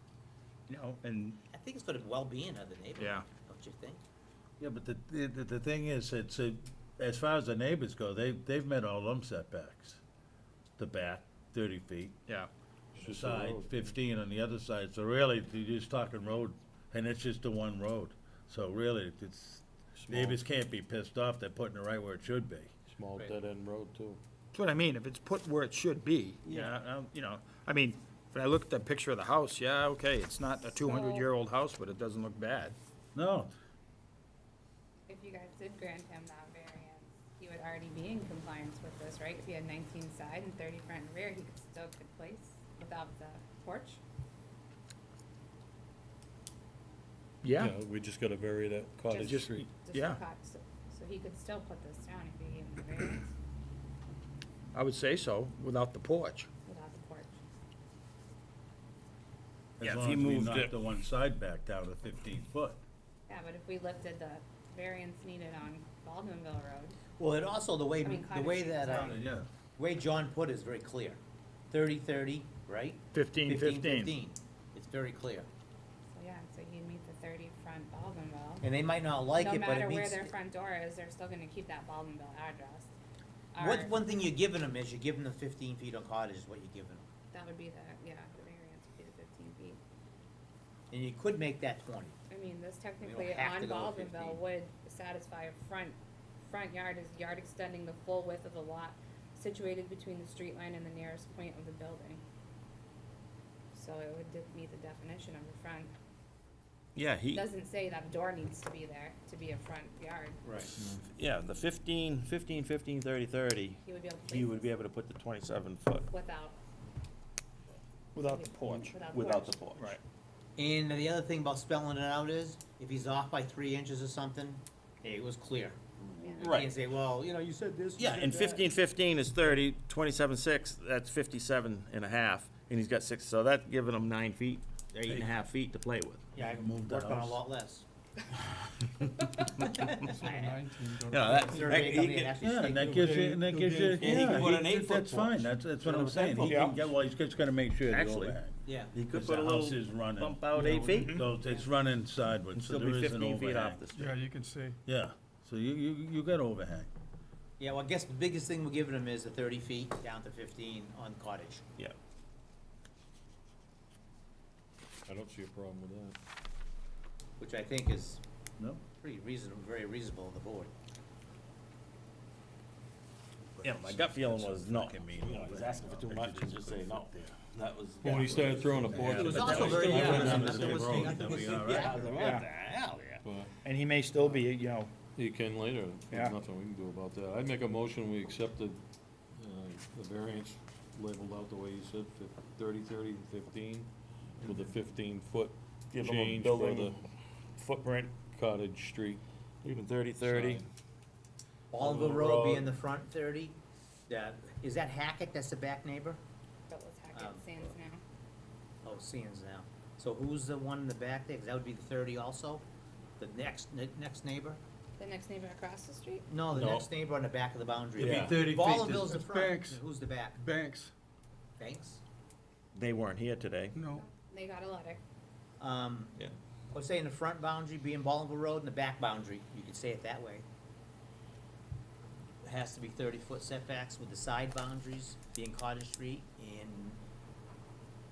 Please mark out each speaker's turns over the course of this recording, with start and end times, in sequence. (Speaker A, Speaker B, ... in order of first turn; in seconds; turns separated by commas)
Speaker A: 0.7-1.4, Speaker B: 1.5-4.0, Speaker A: 3.0-3.3, Speaker C: 4.6-10.0, Speaker C: 10.8-12.2, Speaker D: 13.0-13.8, Speaker C: 13.0-22.7, Speaker D: 20.0-20.4, Speaker D: 22.9-24.2, Speaker A: 24.5-32.8, Speaker E: 30.8-31.3, Speaker C: 33.1-33.5, Speaker E: 35.1-44.0, Speaker A: 47.4-47.7, Speaker D: 47.5-49.7, Speaker E: 49.1-53.3, Speaker A: 49.2-50.2, Speaker A: 54.7-56.5, Speaker E: 56.7-57.4, Speaker C: 59.8-62.8, Speaker F: 59.9-60.8, Speaker E: 63.3-67.0, Speaker B: 67.2-69.2, Speaker E: 68.0-69.2, Speaker C: 68.8-69.5, Speaker B: 69.8-71.2, Speaker B: 71.7-75.5, Speaker A: 73.1-74.2, Speaker E: 76.1-78.7, Speaker B: 78.6-80.3, Speaker E: 79.3-82.9, Speaker E: 83.5-84.1, Speaker B: 83.6-87.1, Speaker E: 87.3-89.8, Speaker B: 90.9-92.2, Speaker E: 92.3-102.2, Speaker B: 93.0-94.4, Speaker E: 103.7-105.9, Speaker F: 107.0-107.5, Speaker E: 107.3-110.4, Speaker B: 110.4-110.7, Speaker D: 110.8-111.0, Speaker F: 111.1-116.1, Speaker E: 113.8-114.7, Speaker E: 116.1-116.6, Speaker A: 118.2-119.0, Speaker E: 118.2-119.6, Speaker F: 119.1-120.0, Speaker B: 120.6-125.8, Speaker E: 126.2-126.6, Speaker F: 126.4-126.7, Speaker B: 126.4-128.7, Speaker F: 128.0-136.3, Speaker B: 136.3-137.8, Speaker C: 136.4-137.4, Speaker F: 139.0-140.3, Speaker B: 139.4-140.5, Speaker G: 140.1-141.6, Speaker F: 141.1-142.4, Speaker B: 141.2-143.1, Speaker C: 142.4-153.8, Speaker G: 142.8-144.6, Speaker F: 143.9-146.8, Speaker A: 146.4-146.8, Speaker F: 147.9-148.4, Speaker B: 148.7-148.9, Speaker F: 148.9-151.3, Speaker G: 150.6-150.9, Speaker F: 152.5-154.2, Speaker G: 154.0-154.8, Speaker C: 154.8-156.9, Speaker B: 157.6-161.7, Speaker D: 165.1-166.2, Speaker B: 167.4-168.2, Speaker C: 168.6-168.8, Speaker B: 169.0-170.7, Speaker C: 173.6-177.4, Speaker F: 173.6-183.2, Speaker D: 178.0-181.3, Speaker C: 178.9-182.2, Speaker B: 179.0-182.2, Speaker A: 182.1-182.5, Speaker D: 183.2-183.5, Speaker A: 183.6-184.9, Speaker D: 185.2-188.8, Speaker A: 186.1-186.4, Speaker D: 189.4-197.0, Speaker F: 195.9-197.0, Speaker F: 197.6-198.2, Speaker D: 198.3-199.2, Speaker F: 199.6-200.6, Speaker D: 200.2-200.7, Speaker B: 201.7-203.6, Speaker D: 201.8-202.7, Speaker B: 204.1-206.2, Speaker E: 206.7-208.0, Speaker B: 207.1-207.6, Speaker B: 208.8-212.6, Speaker B: 213.2-214.6, Speaker E: 215.0-216.3, Speaker B: 216.3-220.4, Speaker F: 216.6-216.9, Speaker F: 218.0-218.4, Speaker C: 218.0-219.7, Speaker B: 221.6-222.0, Speaker F: 222.7-223.8, Speaker E: 223.9-225.0, Speaker B: 225.6-226.2, Speaker B: 226.7-230.4, Speaker B: 232.4-237.0